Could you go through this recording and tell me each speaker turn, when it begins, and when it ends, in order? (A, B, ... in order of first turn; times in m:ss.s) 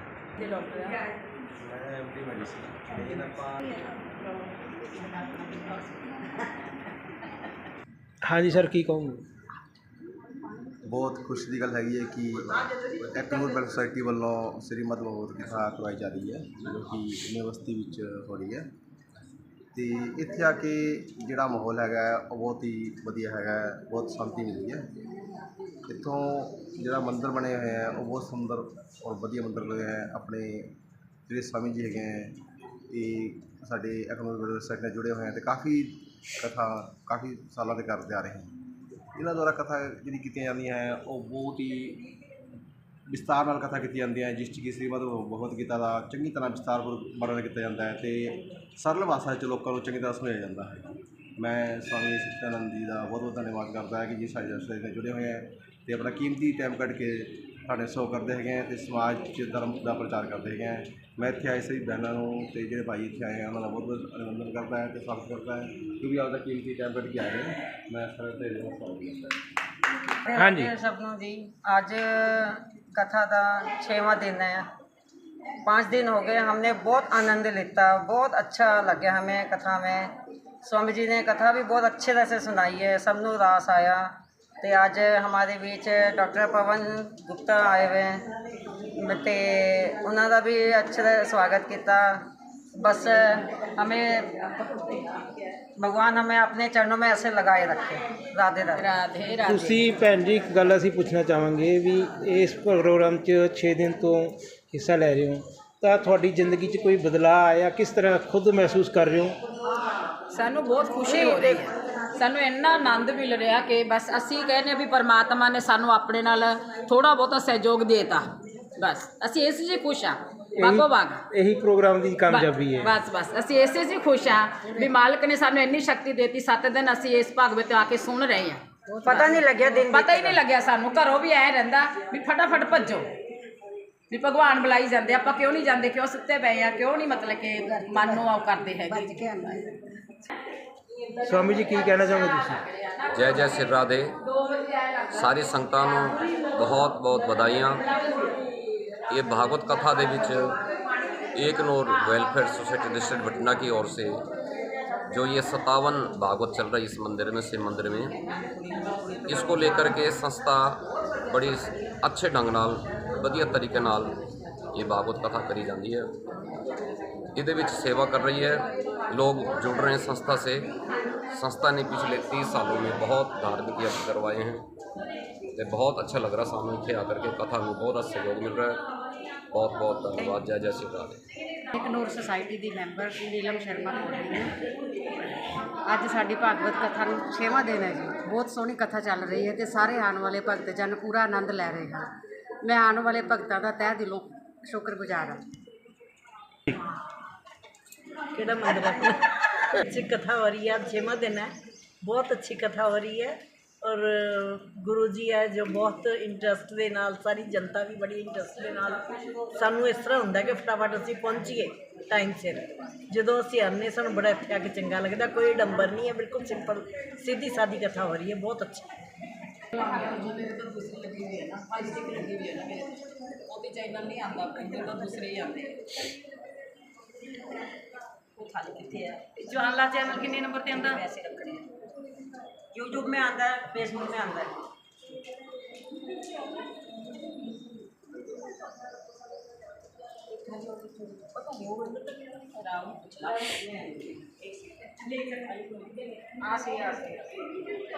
0:01.7-0:03.5 A
0:08.2-0:09.2 B
0:10.9-0:18.7 A
0:19.7-0:24.8 A
0:25.9-0:30.7 A
0:31.3-0:32.4 A
0:32.9-0:38.5 A
0:39.2-0:42.0 A
0:43.1-1:09.4 A
1:10.2-1:14.7 C
1:10.4-1:10.7 B
1:15.6-1:28.2 C
1:29.0-1:32.2 C
1:32.8-1:34.3 C
1:35.8-1:38.8 C
1:38.8-1:40.0 D
1:39.5-1:49.4 B
1:50.3-2:01.2 D
1:51.1-1:51.6 C
2:00.6-2:02.9 B
2:02.3-2:09.4 D
2:09.0-2:10.4 C
2:09.9-2:13.1 D
2:14.1-2:19.7 D
2:21.2-2:22.6 B
2:21.7-2:23.2 D
2:23.1-2:24.2 E
2:25.1-2:27.8 E
2:29.1-2:30.5 E
2:31.4-2:34.2 E
2:35.1-2:38.2 E
2:39.2-2:44.2 E
2:44.7-2:46.1 E
2:47.4-2:50.7 E
2:51.3-2:54.7 E
2:55.6-2:58.8 E
2:59.5-3:01.2 E
3:01.7-3:04.4 F
3:05.9-3:12.0 F
3:12.6-3:15.3 F
3:18.3-3:19.2 G
3:19.8-3:21.5 G
3:22.0-3:29.0 G
3:29.5-3:38.9 G
3:39.7-3:43.0 D
3:43.5-3:45.9 D
3:48.4-3:51.6 D
3:52.7-3:54.6 C
4:01.4-4:02.0 D
4:02.6-4:03.8 D
4:06.5-4:07.1 C